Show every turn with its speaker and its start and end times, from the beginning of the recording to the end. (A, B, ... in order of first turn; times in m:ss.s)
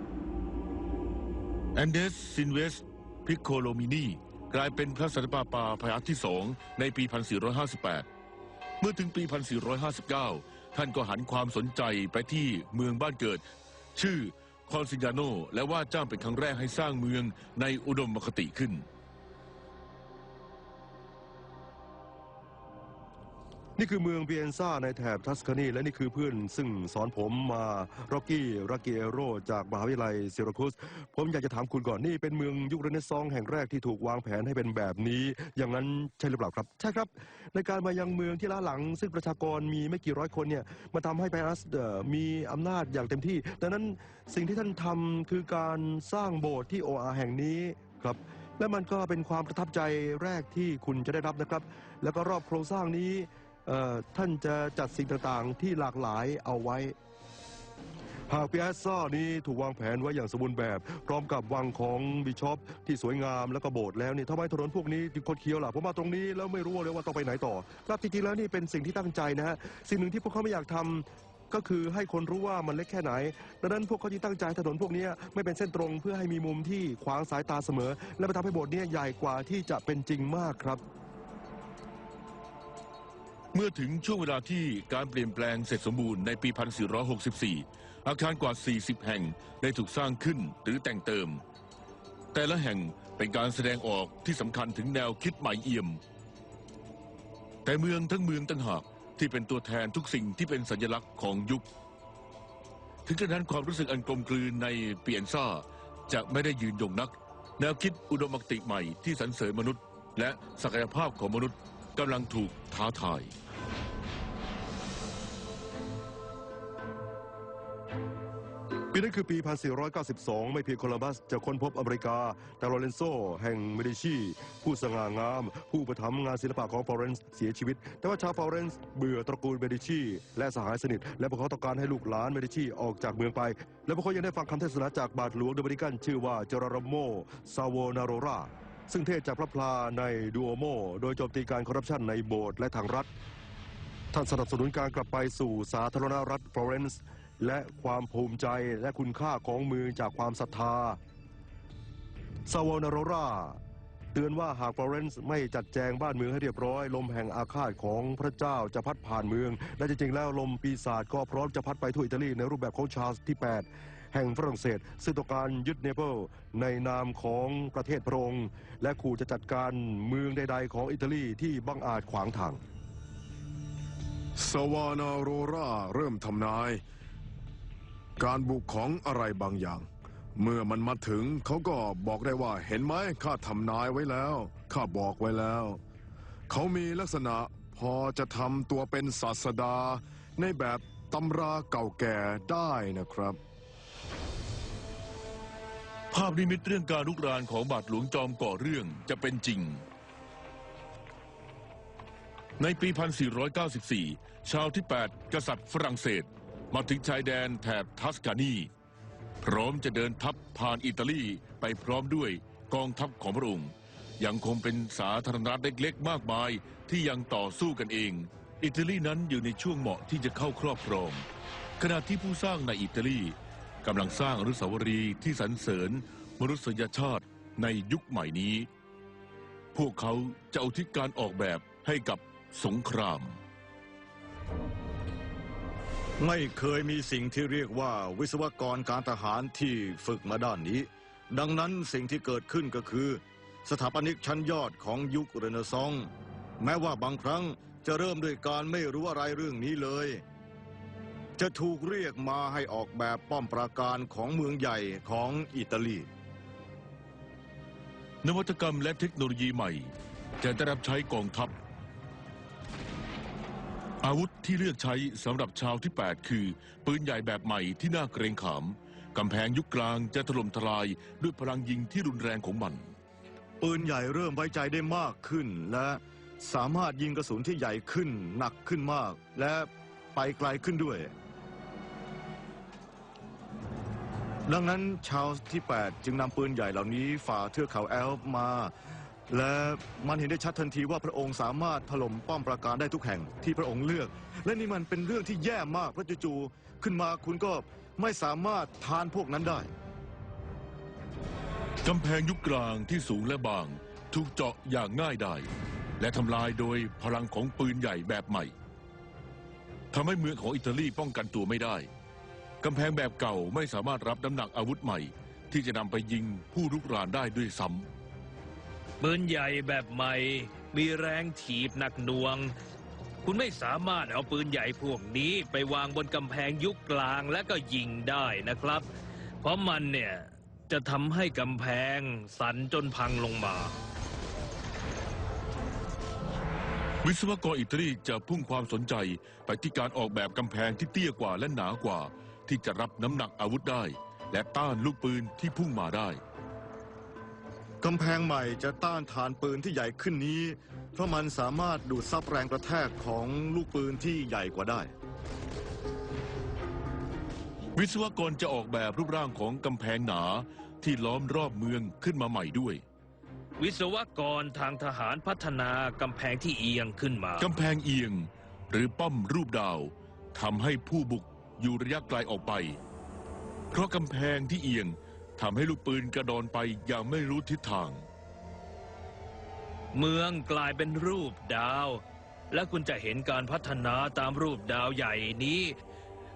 0:01.7-0:08.0 A
0:08.8-0:13.4 A
0:14.0-0:18.8 A
0:23.8-0:56.9 B
0:58.3-1:20.8 B
1:23.5-1:31.4 A
1:32.3-1:36.0 A
1:37.6-1:41.6 A
1:43.0-1:53.3 A
1:58.9-2:23.1 B
2:24.1-2:31.0 B
2:32.5-2:33.6 B
2:34.1-2:52.6 B
2:54.4-2:56.8 C
2:58.2-3:05.8 C
3:06.5-3:13.4 C
3:16.1-3:19.8 A
3:22.6-3:28.7 A
3:29.4-3:41.2 A
3:41.8-3:48.7 A
3:49.7-3:53.4 A
3:56.2-4:10.2 D
4:11.4-4:16.1 D
4:18.2-4:21.5 A
4:24.0-4:32.9 A
4:33.6-4:41.1 D
4:44.4-4:48.7 D
4:49.3-4:59.7 D
5:01.8-5:08.5 A
5:09.9-5:11.9 A
5:12.6-5:17.9 A
5:19.0-5:22.5 E
5:23.2-5:28.9 E
5:29.4-5:33.8 E
5:37.0-5:46.2 A
5:47.8-5:54.9 D
5:57.8-6:02.8 A
6:03.6-6:07.5 E
6:07.4-6:12.8 A
6:13.7-6:18.0 A
6:19.9-6:25.8 E